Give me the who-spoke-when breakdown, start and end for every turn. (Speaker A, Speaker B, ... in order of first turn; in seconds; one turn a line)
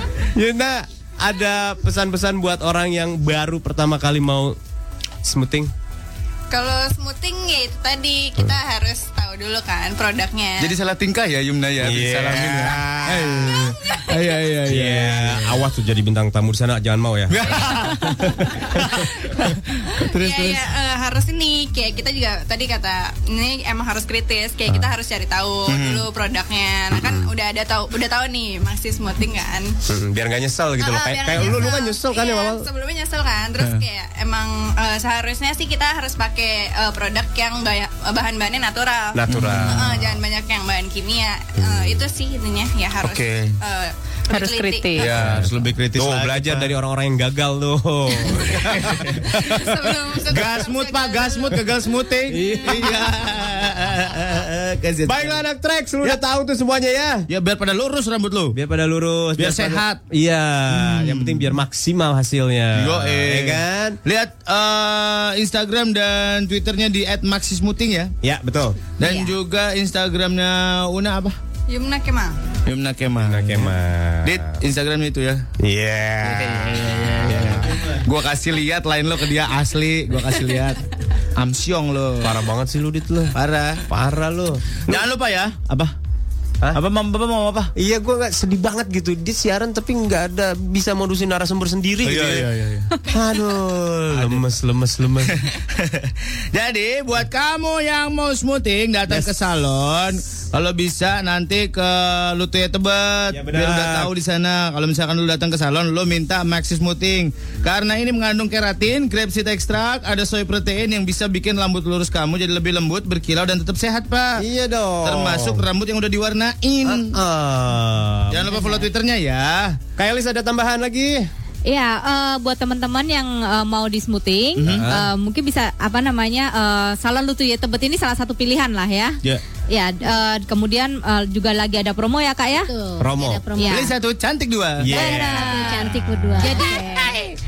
Speaker A: 0.3-4.5
Speaker A: 5.2-5.7
Speaker B: 6.5-10.7
Speaker C: 10.6-15.6
Speaker A: 11.8-13.7
Speaker B: 13.7-14.3
Speaker A: 14.7-19.0
Speaker C: 17.3-20.7
Speaker B: 19.9-29.7
Speaker C: 25.7-26.0
Speaker A: 26.9-27.3
Speaker A: 29.9-32.6
Speaker B: 30.8-45.0
Speaker A: 39.1-40.0
Speaker C: 39.3-40.1
Speaker A: 41.6-42.0
Speaker C: 43.0-43.6
Speaker D: 44.3-45.0
Speaker C: 45.0-46.7
Speaker A: 45.0-49.6
Speaker C: 48.3-49.7
Speaker B: 49.3-52.6
Speaker C: 50.3-55.4
Speaker A: 52.3-53.1
Speaker A: 55.0-57.3
Speaker C: 57.3-58.6
Speaker A: 58.5-64.0
Speaker C: 59.4-60.0
Speaker C: 60.7-61.5
Speaker C: 62.7-68.1
Speaker A: 68.2-68.8
Speaker C: 69.0-71.4
Speaker B: 71.7-72.4
Speaker C: 72.7-75.5
Speaker A: 73.2-74.6
Speaker A: 75.6-77.8
Speaker C: 76.2-80.8
Speaker C: 81.3-82.3
Speaker A: 82.2-83.3
Speaker C: 83.3-83.8
Speaker A: 83.9-85.1
Speaker C: 84.9-85.9
Speaker C: 86.7-87.7
Speaker A: 87.8-92.5
Speaker C: 92.0-92.9
Speaker A: 93.1-95.4
Speaker C: 94.1-94.4
Speaker C: 95.4-114.4
Speaker A: 103.3-104.1
Speaker A: 114.4-115.6
Speaker C: 115.0-117.2
Speaker A: 116.8-118.6
Speaker C: 118.3-119.8
Speaker A: 120.0-121.3
Speaker D: 121.7-129.2
Speaker C: 124.6-124.9
Speaker A: 124.7-125.1
Speaker D: 129.7-132.7
Speaker E: 132.5-133.9
Speaker A: 133.0-133.4
Speaker D: 133.6-133.9
Speaker C: 133.7-134.9
Speaker A: 134.8-136.6
Speaker E: 134.9-136.8
Speaker D: 134.9-137.2